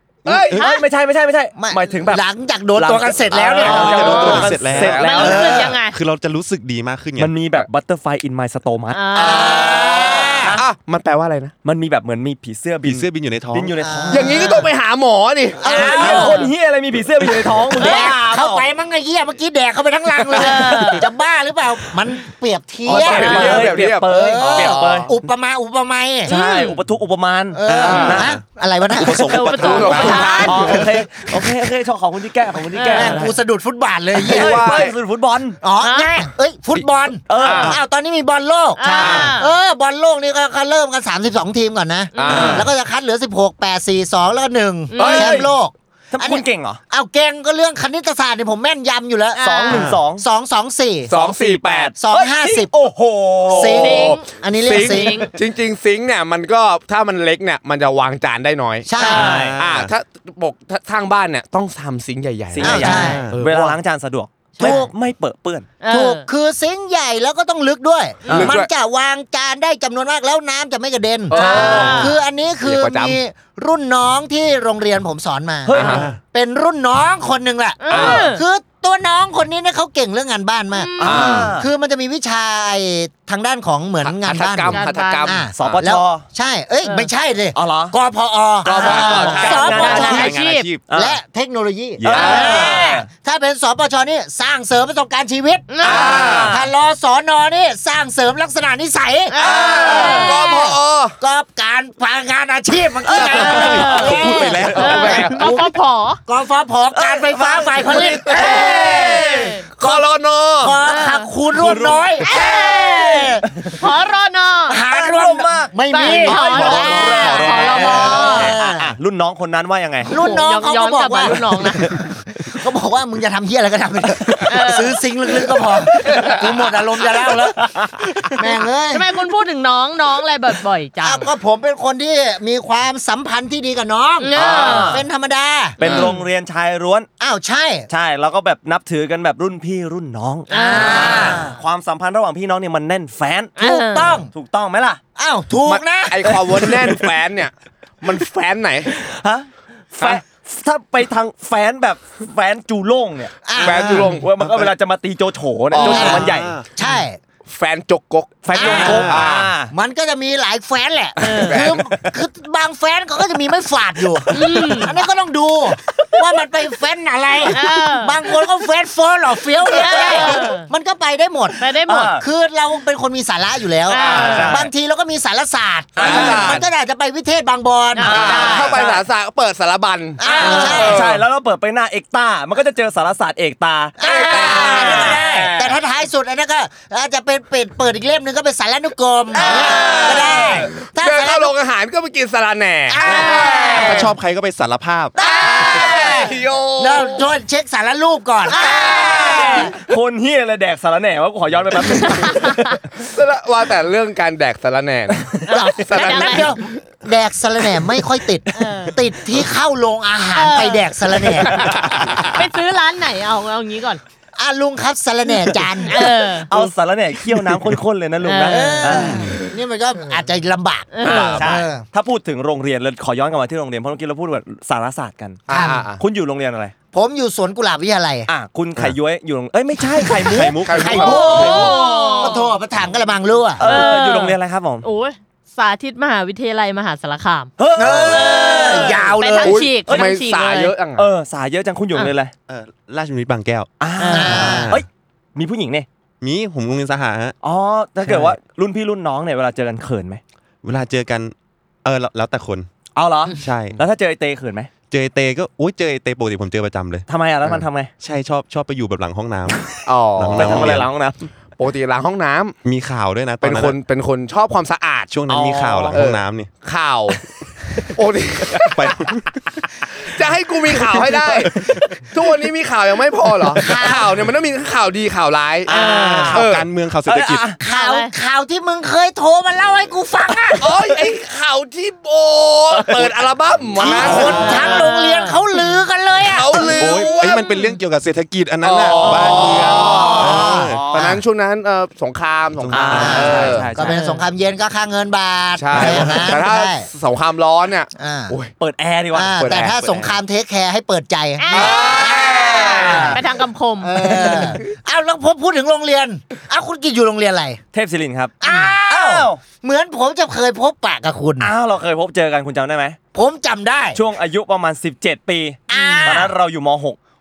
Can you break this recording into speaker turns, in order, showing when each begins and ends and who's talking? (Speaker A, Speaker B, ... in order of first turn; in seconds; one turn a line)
Speaker A: 0.3-0.6
Speaker B: 0.3-0.6
Speaker C: 0.5-5.5
Speaker D: 0.6-0.9
Speaker E: 1.6-4.5
Speaker A: 3.5-5.2
Speaker B: 3.6-7.3
Speaker D: 5.0-6.0
Speaker E: 5.1-5.7
Speaker C: 7.2-9.6
Speaker D: 8.9-10.2
Speaker E: 9.2-10.6
Speaker C: 10.1-10.7
Speaker A: 10.5-11.5
Speaker C: 11.6-14.6
Speaker B: 12.8-13.8
Speaker E: 13.8-14.7
Speaker A: 14.1-16.3
Speaker E: 15.6-16.5
Speaker C: 15.6-18.6
Speaker D: 16.2-16.5
Speaker A: 17.2-17.7
Speaker E: 17.8-26.3
Speaker D: 17.8-18.1
Speaker D: 20.4-21.1
Speaker A: 22.9-25.1
Speaker C: 22.9-25.2
Speaker D: 26.3-26.8
Speaker C: 26.3-28.3
Speaker E: 27.5-31.0
Speaker B: 27.7-30.2
Speaker A: 27.8-28.2
Speaker D: 29.2-30.7
Speaker A: 29.6-30.9
Speaker C: 30.0-33.4
Speaker D: 32.7-33.1
Speaker E: 32.9-34.8
Speaker C: 34.2-35.6
Speaker A: 34.2-34.9
Speaker E: 35.6-51.1
Speaker D: 35.8-36.2
Speaker C: 37.3-37.8
Speaker A: 37.4-37.8
Speaker D: 38.8-39.5
Speaker C: 38.8-39.3
Speaker D: 42.1-42.6
Speaker A: 42.1-42.7
Speaker D: 44.9-45.4
Speaker A: 45.0-45.5
Speaker C: 45.0-45.5
Speaker C: 46.1-46.8
Speaker D: 49.3-49.9
Speaker C: 49.4-50.2
Speaker A: 49.7-50.0
Speaker A: 51.1-51.9
Speaker C: 51.1-54.0
Speaker E: 52.0-52.7
Speaker E: 53.5-55.2
Speaker A: 53.6-63.8
Speaker D: 53.8-54.3
Speaker D: 54.8-55.3
Speaker E: 58.9-59.4
Speaker C: 59.0-59.6
Speaker D: 59.0-59.2
Speaker B: 59.0-59.9
Speaker C: 62.5-65.7
Speaker E: 62.6-63.2
Speaker D: 62.8-63.2
Speaker E: 64.6-64.9
Speaker D: 65.8-66.3
Speaker E: 65.9-90.3
Speaker C: 68.2-68.6
Speaker A: 68.3-68.7
Speaker A: 71.3-73.2
Speaker D: 71.3-72.2
Speaker C: 75.7-76.1
Speaker A: 75.7-76.1
Speaker B: 75.9-76.2
Speaker D: 77.8-78.4
Speaker A: 77.9-78.3
Speaker D: 80.7-81.2
Speaker C: 81.0-81.7
Speaker A: 81.0-81.5
Speaker A: 84.0-85.8
Speaker D: 84.7-85.4
Speaker C: 85.5-86.3
Speaker D: 86.8-87.1
Speaker C: 87.5-88.0
Speaker A: 88.6-90.0
Speaker D: 88.7-90.7
Speaker C: 88.7-90.3
Speaker B: 89.2-90.9
Speaker C: 90.9-91.2
Speaker E: 90.9-105.6
Speaker C: 92.0-93.1
Speaker A: 92.1-92.7
Speaker D: 92.3-92.8
Speaker D: 95.7-96.4
Speaker A: 95.8-96.5
Speaker C: 95.9-96.7
Speaker D: 99.3-100.6
Speaker A: 99.4-101.2
Speaker A: 103.1-103.5
Speaker B: 103.2-105.5
Speaker D: 103.2-104.1
Speaker A: 104.4-105.5
Speaker D: 104.8-106.2
Speaker E: 106.3-110.1
Speaker C: 106.9-109.6
Speaker A: 108.1-108.6
Speaker D: 108.8-109.6
Speaker A: 109.8-110.8
Speaker E: 110.6-113.6
Speaker D: 110.8-111.3
Speaker C: 111.5-113.8
Speaker D: 112.3-112.9
Speaker D: 113.8-114.8
Speaker E: 114.7-118.9
Speaker C: 114.9-120.2
Speaker D: 115.9-118.5
Speaker B: 116.3-118.3
Speaker D: 120.0-122.0
Speaker E: 120.1-127.6
Speaker D: 124.5-125.1
Speaker C: 127.2-128.3
Speaker E: 128.3-129.1
Speaker D: 128.9-131.3
Speaker E: 131.0-135.8
Speaker D: 134.2-135.0
Speaker C: 134.4-135.0
Speaker C: 135.8-137.1
Speaker A: 135.8-136.1
Speaker D: 135.9-136.2
Speaker E: 137.2-137.9
Speaker C: 137.9-143.6
Speaker D: 140.5-141.4
Speaker E: 140.5-141.4
Speaker D: 143.6-144.2
Speaker E: 143.6-144.3
Speaker C: 144.3-145.0
Speaker E: 145.2-146.3
Speaker A: 145.6-148.9
Speaker C: 146.6-147.0
Speaker C: 148.9-156.6
Speaker E: 153.4-154.1
Speaker A: 153.6-154.7
Speaker A: 155.7-156.3
Speaker E: 155.8-157.2
Speaker B: 155.8-156.7
Speaker A: 157.5-159.5
Speaker C: 158.4-159.7
Speaker E: 158.5-171.6
Speaker B: 158.9-159.3
Speaker D: 161.2-161.7
Speaker A: 161.4-161.9
Speaker D: 164.3-165.0
Speaker D: 167.4-168.4
Speaker D: 169.7-170.7
Speaker D: 171.6-172.2
Speaker C: 171.9-172.2
Speaker E: 172.2-178.9
Speaker D: 173.9-174.6
Speaker C: 174.0-174.7
Speaker C: 176.0-176.6
Speaker A: 176.0-176.7
Speaker D: 177.9-179.0
Speaker C: 178.0-178.7
Speaker A: 178.1-181.2
Speaker E: 180.2-181.0
Speaker D: 180.3-180.9
Speaker C: 180.4-185.8
Speaker E: 184.0-191.6
Speaker A: 184.0-185.2
Speaker A: 189.4-194.1
Speaker C: 189.5-190.6
Speaker E: 192.9-194.2
Speaker C: 193.2-193.6
Speaker B: 193.7-195.2
Speaker E: 195.2-199.7
Speaker A: 195.2-197.3
Speaker D: 198.5-199.4
Speaker C: 198.5-202.8
Speaker D: 201.9-202.6
Speaker A: 203.0-206.5
Speaker D: 205.5-206.6
Speaker E: 205.5-211.8
Speaker D: 208.5-209.0
Speaker D: 210.3-210.9
Speaker C: 211.4-212.0
Speaker D: 212.2-214.0
Speaker E: 214.4-216.1
Speaker D: 215.9-216.5
Speaker C: 216.5-219.3
Speaker D: 218.2-219.1
Speaker E: 218.5-221.8
Speaker D: 220.9-221.4
Speaker C: 221.0-226.7
Speaker A: 225.5-226.0
Speaker E: 225.5-225.8
Speaker E: 226.9-228.3
Speaker C: 228.3-230.6
Speaker E: 230.0-233.7
Speaker B: 230.3-231.4
Speaker A: 230.6-231.7
Speaker D: 231.0-232.5
Speaker C: 231.4-231.7
Speaker C: 233.6-234.9
Speaker D: 233.6-240.8
Speaker C: 237.6-238.7
Speaker E: 237.8-239.6
Speaker A: 239.4-241.1
Speaker C: 239.8-240.1
Speaker C: 240.9-242.3
Speaker B: 242.5-243.7
Speaker C: 243.8-245.9
Speaker D: 244.0-244.6
Speaker E: 244.1-244.7
Speaker B: 244.3-244.8
Speaker B: 246.2-247.4
Speaker C: 247.4-250.2
Speaker B: 250.6-252.7
Speaker C: 252.9-254.7
Speaker B: 253.4-253.8
Speaker B: 254.9-260.9
Speaker C: 257.1-257.9
Speaker A: 259.9-260.7
Speaker C: 260.3-261.3
Speaker A: 261.6-262.6
Speaker B: 262.6-263.8
Speaker A: 263.4-269.0
Speaker B: 265.1-266.5
Speaker B: 268.6-269.4
Speaker A: 269.8-275.8
Speaker B: 270.9-272.1
Speaker B: 273.4-273.9
Speaker E: 273.6-274.1
Speaker B: 275.7-277.6
Speaker D: 275.7-276.5
Speaker A: 276.3-276.7
Speaker C: 277.1-277.6
Speaker E: 277.6-280.8
Speaker D: 277.7-278.1
Speaker A: 280.6-284.7
Speaker C: 282.8-283.1
Speaker E: 283.8-286.8
Speaker C: 283.9-284.7
Speaker D: 284.3-285.7
Speaker A: 286.2-287.5
Speaker B: 286.8-291.1
Speaker D: 287.2-287.7
Speaker A: 288.6-293.7
Speaker E: 289.1-290.8
Speaker C: 290.5-291.2
Speaker B: 292.6-293.6
Speaker C: 292.7-294.0
Speaker E: 292.9-296.9
Speaker D: 293.8-294.2
Speaker A: 295.6-298.5
Speaker E: 297.9-298.4
Speaker C: 298.6-299.5
Speaker E: 299.1-303.2
Speaker A: 299.2-299.8
Speaker B: 299.7-300.2
Speaker D: 301.4-304.4
Speaker A: 301.5-303.2
Speaker E: 303.8-307.6
Speaker C: 307.7-308.4
Speaker E: 308.4-311.5
Speaker D: 308.4-308.8
Speaker C: 308.9-309.4
Speaker C: 311.4-313.0
Speaker E: 313.1-314.0
Speaker C: 313.9-317.0
Speaker E: 315.7-316.3
Speaker D: 315.7-316.2